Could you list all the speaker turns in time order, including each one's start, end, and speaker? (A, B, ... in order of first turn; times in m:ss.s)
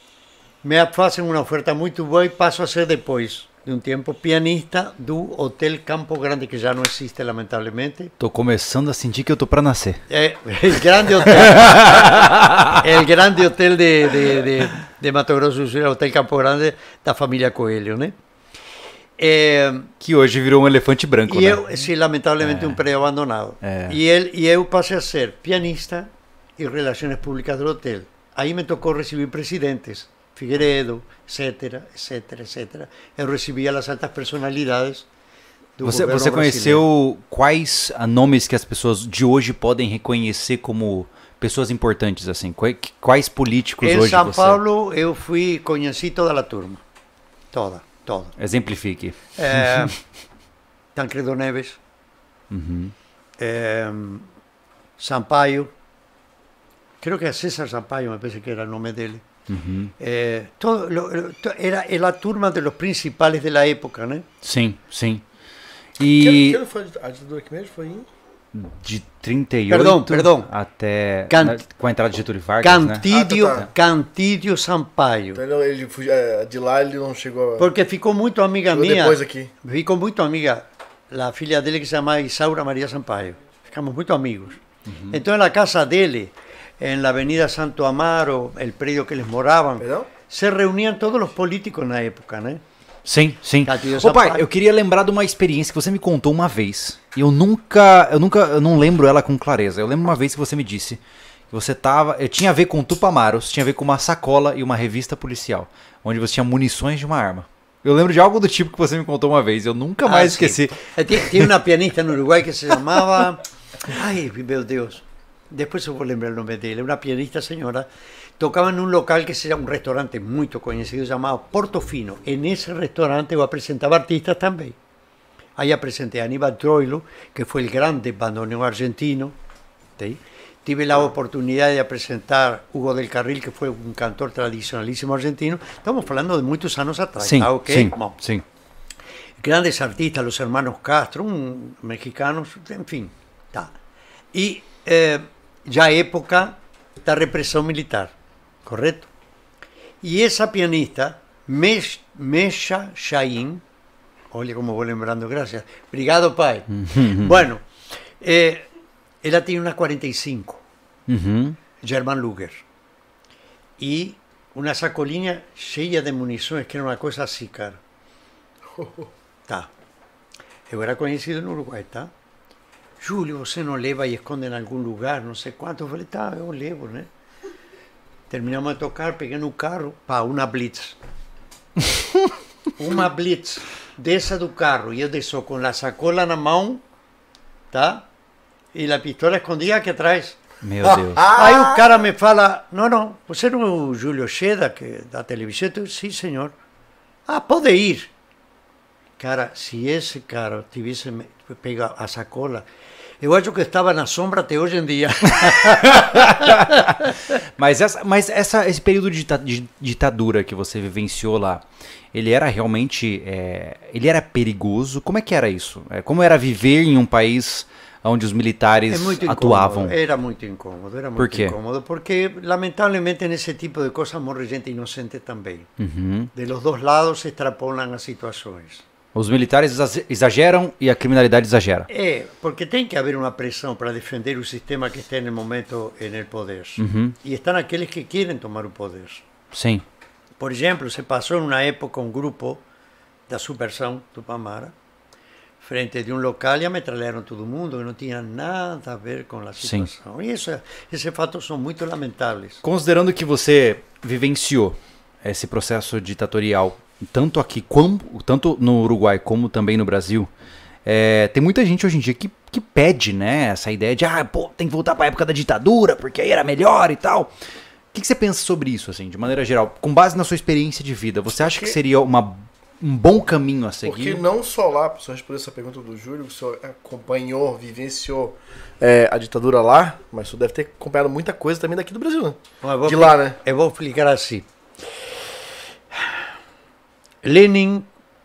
0:00.6-0:08.1 A
0:08.2-0:10.0 B
0:10.1-0:18.2 A
0:11.2-0:12.8 B
0:19.2-0:19.9 A
0:20.0-0:21.8 B
0:21.3-0:35.0 A
0:22.4-0:22.8 B
0:23.6-0:24.0 B
0:35.8-0:36.8 A
0:35.8-0:44.6 B
0:43.8-0:46.8 A
0:47.5-0:48.3 A
0:48.4-0:49.9 B
0:49.4-0:50.0 A
0:50.9-0:51.8 A
0:52.5-0:52.9 B
0:53.4-0:54.3 A
0:55.0-0:55.7 A
0:57.0-0:59.2 A
0:59.5-0:59.9 B
1:00.0-1:04.2 A
1:04.4-1:05.2 B
1:06.0-1:06.6 B
1:06.2-1:08.1 C
1:08.5-1:13.7 B
1:09.7-1:10.5 A
1:11.3-1:11.6 A
1:12.6-1:15.4 A
1:13.1-1:13.6 C
1:15.4-1:17.7 C
1:17.6-1:32.6 A
1:18.7-1:19.5 C
1:24.9-1:25.2 B
1:29.8-1:30.1 C
1:33.0-1:41.0 B
1:33.6-1:34.4 A
1:41.5-1:51.5 B
1:50.0-1:57.9 A
1:58.4-2:04.8 A
2:05.6-2:09.4 A
2:10.0-2:18.2 A
2:17.2-2:18.4 B
2:19.4-2:23.7 A
2:24.3-2:28.1 A
2:28.6-2:29.1 A
2:30.0-2:33.6 A
2:34.3-2:37.6 A
2:36.7-2:37.4 B
2:38.2-2:38.7 A
2:39.2-2:40.6 A
2:41.1-2:41.6 B
2:41.8-2:42.6 A
2:43.8-2:47.8 A
2:48.8-2:49.1 C
2:50.7-2:52.1 A
2:53.0-2:57.1 A
2:58.3-3:01.0 A
3:02.8-3:06.8 A
3:07.7-3:08.1 A
3:08.7-3:16.5 A
3:10.6-3:11.3 B
3:11.2-3:12.0 C
3:17.3-3:18.1 A
3:19.2-3:22.6 A
3:23.2-3:26.8 A
3:25.4-3:39.9 B
3:38.9-3:45.7 A
3:41.2-3:41.5 B
3:45.8-3:46.3 B
3:46.3-3:48.8 A
3:49.1-3:51.9 B
3:51.9-3:59.2 A
3:56.8-3:57.2 B
3:59.5-3:59.8 B
4:00.4-4:02.6 A
4:03.3-4:04.7 A
4:05.6-4:12.6 A
4:09.6-4:09.9 B
4:12.6-4:20.3 B
4:20.8-4:27.3 B
4:27.9-4:34.2 B
4:31.4-4:31.8 C
4:33.8-4:43.4 C
4:42.6-4:44.5 A
4:47.2-4:47.9 A